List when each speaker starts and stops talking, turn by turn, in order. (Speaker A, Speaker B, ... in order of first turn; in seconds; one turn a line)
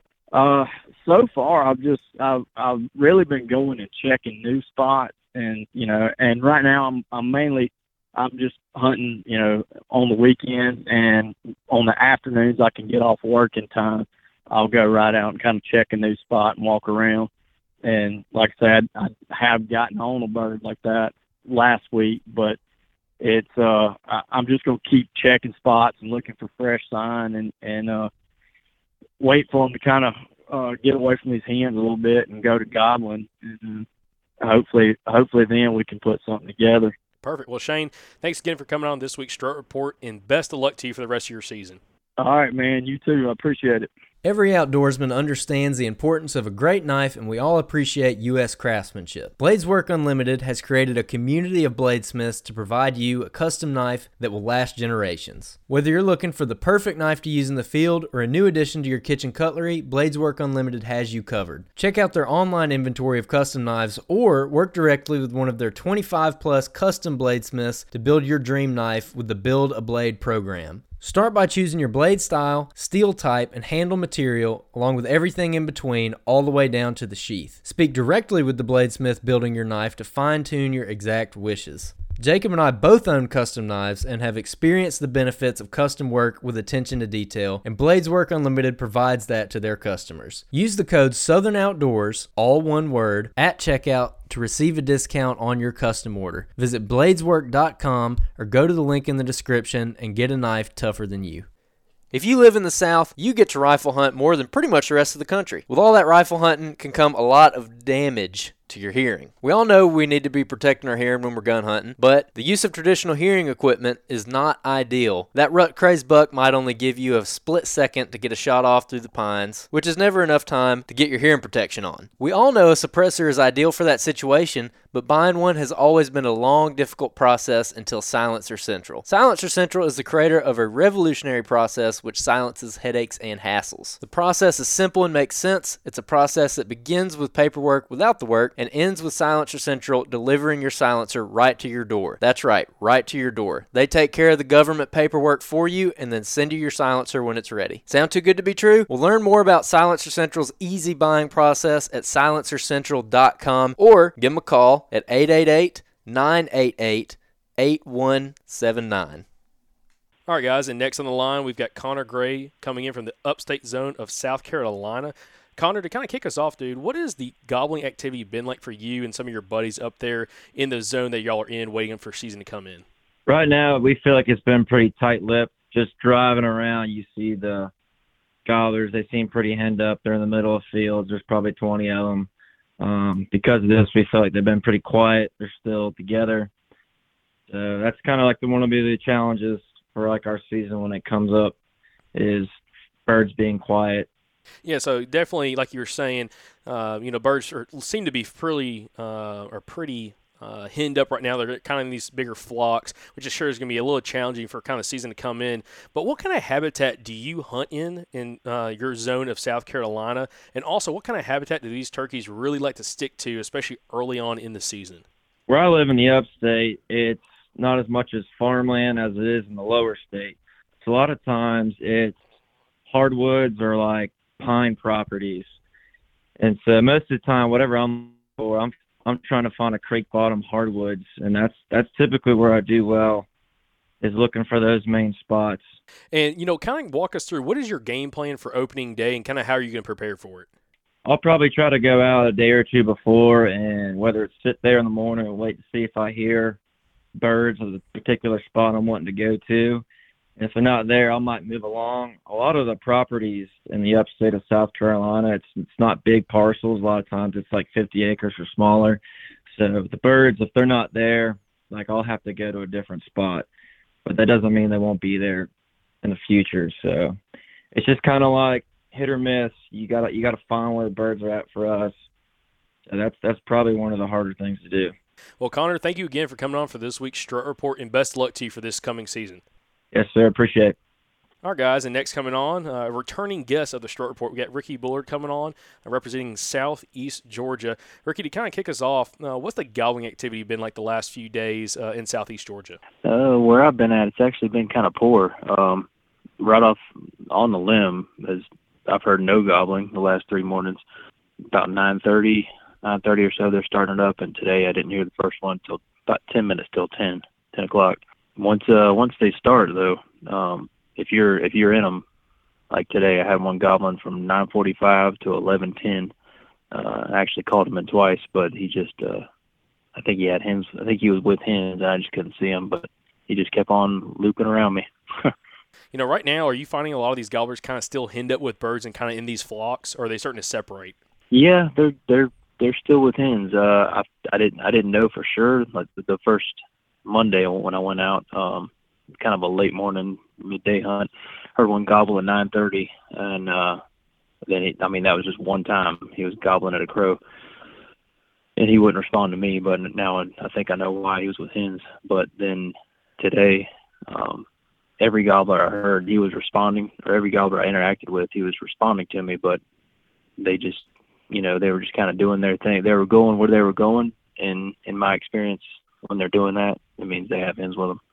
Speaker A: 0.3-17.3
Speaker A: 17.8-22.6
Speaker A: 23.2-28.1
Speaker A: 29.2-33.8
Speaker A: 34.4-36.9
Speaker B: 37.2-41.8
Speaker A: 42.2-43.9
Speaker C: 44.2-101.5
Speaker C: 102.1-159.2
Speaker B: 160.3-172.8
Speaker D: 173.3-177.7
Speaker D: 178.4-182.3
Speaker D: 182.8-186.5
Speaker D: 187.5-191.5
Speaker D: 192.1-192.5
Speaker D: 193.1-194.1
Speaker B: 194.6-215.0
Speaker D: 215.5-222.1
Speaker D: 222.9-225.5
Speaker D: 226.4-233.2
Speaker D: 234.0-235.7
Speaker B: 236.1-240.5
Speaker D: 241.1-246.6
Speaker D: 247.2-249.8
Speaker D: 250.4-263.5
Speaker D: 264.1-265.5
Speaker D: 266.0-267.2
Speaker D: 267.7-271.9
Speaker D: 272.9-274.9
Speaker B: 275.4-279.4
Speaker D: 279.9-280.8
Speaker B: 281.4-292.8
Speaker E: 293.0-295.9
Speaker E: 296.4-300.8
Speaker E: 301.5-312.0
Speaker E: 312.7-316.1
Speaker E: 316.7-319.3
Speaker E: 319.9-325.3
Speaker B: 325.9-330.9
Speaker E: 331.3-343.8
Speaker E: 344.4-347.2
Speaker E: 348.6-354.4
Speaker E: 355.0-359.6
Speaker E: 360.4-368.0